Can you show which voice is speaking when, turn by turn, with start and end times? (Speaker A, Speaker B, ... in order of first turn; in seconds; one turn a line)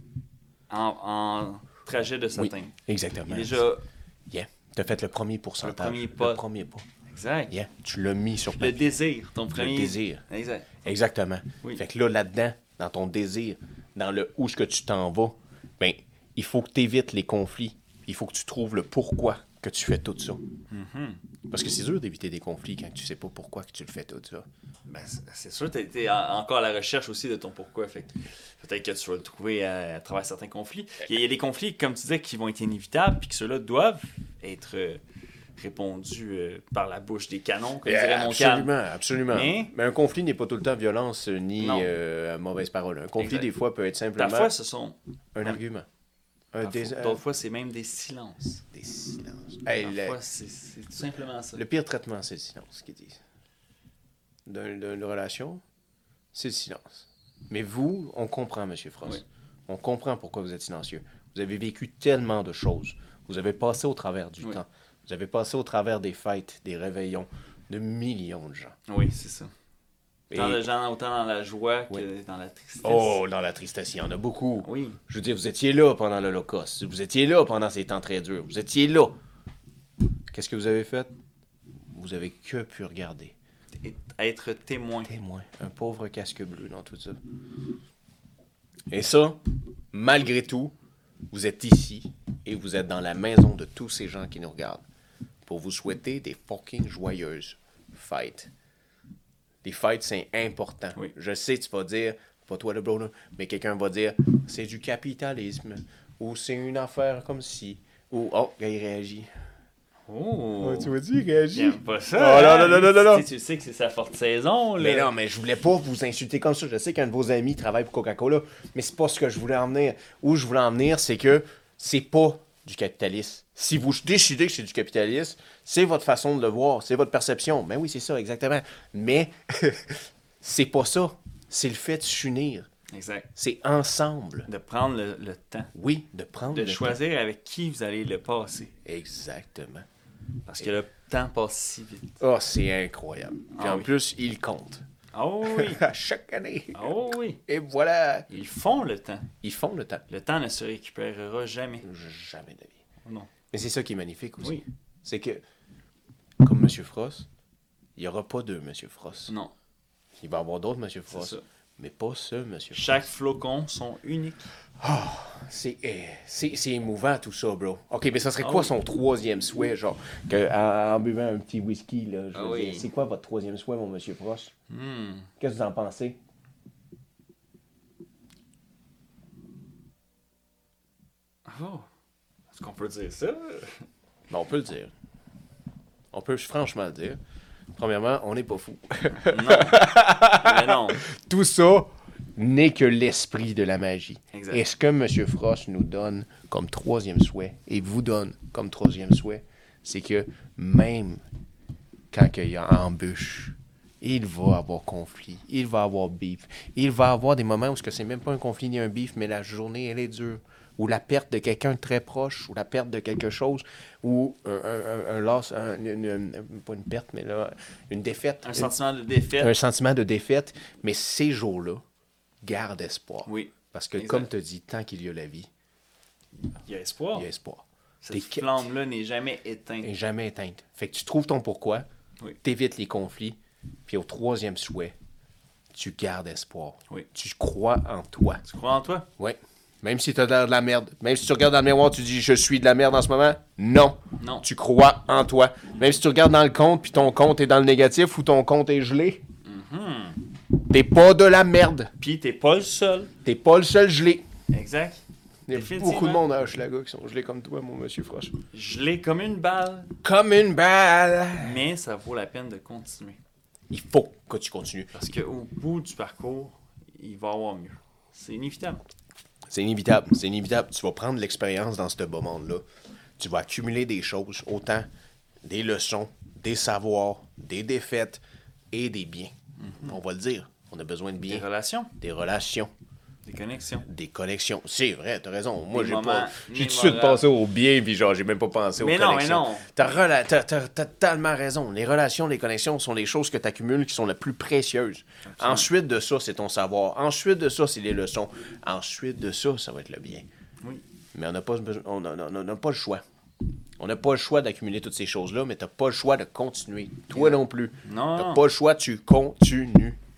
Speaker A: 0.7-2.8
Speaker B: 2.4-3.6
Speaker A: 3.3-3.8
Speaker B: 4.3-6.8
Speaker A: 5.6-6.4
Speaker A: 7.1-7.5
Speaker B: 7.5-8.9
Speaker A: 8.5-10.8
Speaker B: 9.5-10.2
Speaker B: 10.8-20.4
Speaker A: 20.7-21.2
Speaker B: 21.5-24.5
Speaker A: 24.9-35.0
Speaker A: 35.6-38.7
Speaker B: 37.9-44.5
Speaker A: 39.3-39.7
Speaker A: 41.6-41.9
Speaker A: 43.2-43.5
Speaker A: 44.2-45.6
Speaker B: 45.4-45.9
Speaker B: 46.5-47.2
Speaker A: 46.6-48.6
Speaker B: 48.7-50.2
Speaker A: 49.8-51.6
Speaker B: 51.5-53.2
Speaker B: 54.5-55.6
Speaker B: 56.3-68.8
Speaker A: 68.9-69.5
Speaker B: 70.3-70.7
Speaker A: 70.3-73.2
Speaker B: 72.8-79.2
Speaker A: 74.6-75.0
Speaker B: 80.3-81.1
Speaker B: 81.9-83.3
Speaker A: 83.8-85.1
Speaker B: 85.0-87.2
Speaker B: 88.9-89.4
Speaker B: 89.9-90.7
Speaker B: 91.3-94.8
Speaker B: 95.5-98.5
Speaker B: 99.6-109.3
Speaker A: 110.1-110.9
Speaker B: 110.6-113.2
Speaker A: 111.5-115.1
Speaker B: 114.8-132.7
Speaker A: 132.9-133.3
Speaker B: 133.4-134.5
Speaker A: 134.5-135.7
Speaker B: 135.7-137.0
Speaker A: 136.5-138.7
Speaker B: 138.8-139.9
Speaker A: 140.5-142.2
Speaker B: 142.2-144.8
Speaker A: 143.5-143.9
Speaker A: 145.1-145.9
Speaker B: 145.4-146.9
Speaker A: 146.7-147.4
Speaker B: 147.5-148.3
Speaker A: 148.3-149.3
Speaker B: 149.4-150.0
Speaker A: 150.1-151.9
Speaker B: 151.8-152.8
Speaker A: 153.1-153.3
Speaker B: 153.5-155.4
Speaker B: 156.4-157.3
Speaker B: 158.0-159.3
Speaker A: 159.3-159.5
Speaker B: 160.2-163.0
Speaker A: 161.1-161.4
Speaker A: 162.7-164.5
Speaker B: 164.8-174.5
Speaker A: 168.4-168.7
Speaker A: 172.3-172.9
Speaker A: 174.7-175.3
Speaker B: 175.4-176.2
Speaker A: 181.5-181.9
Speaker A: 182.5-183.9
Speaker B: 184.3-184.9
Speaker B: 186.1-187.2
Speaker B: 187.8-201.2
Speaker A: 189.2-191.0
Speaker A: 194.3-194.6
Speaker B: 202.1-218.7
Speaker A: 218.4-219.5
Speaker B: 219.4-221.8
Speaker B: 222.4-225.5
Speaker A: 223.3-224.3
Speaker A: 226.6-227.3
Speaker B: 227.2-228.6
Speaker A: 228.0-229.9
Speaker B: 229.8-231.9
Speaker B: 232.4-234.9
Speaker B: 235.7-238.4
Speaker A: 238.4-239.1
Speaker B: 239.2-249.2
Speaker A: 244.2-244.4
Speaker A: 249.4-250.2
Speaker B: 250.6-251.9
Speaker A: 252.0-253.1
Speaker B: 253.2-254.2
Speaker A: 254.5-256.2
Speaker B: 255.5-258.3
Speaker A: 258.5-259.9
Speaker B: 260.0-261.6
Speaker A: 261.4-263.2
Speaker B: 263.7-265.0
Speaker A: 264.9-268.8
Speaker B: 269.5-272.7
Speaker B: 273.2-274.9
Speaker B: 275.4-278.2
Speaker B: 278.7-281.5
Speaker A: 279.6-280.0
Speaker A: 281.3-281.9
Speaker B: 282.0-282.7
Speaker A: 283.2-283.9
Speaker B: 283.9-300.3
Speaker A: 285.7-287.2
Speaker A: 288.8-289.7
Speaker A: 295.2-295.7
Speaker B: 301.1-303.0
Speaker B: 303.8-310.0
Speaker A: 307.1-308.4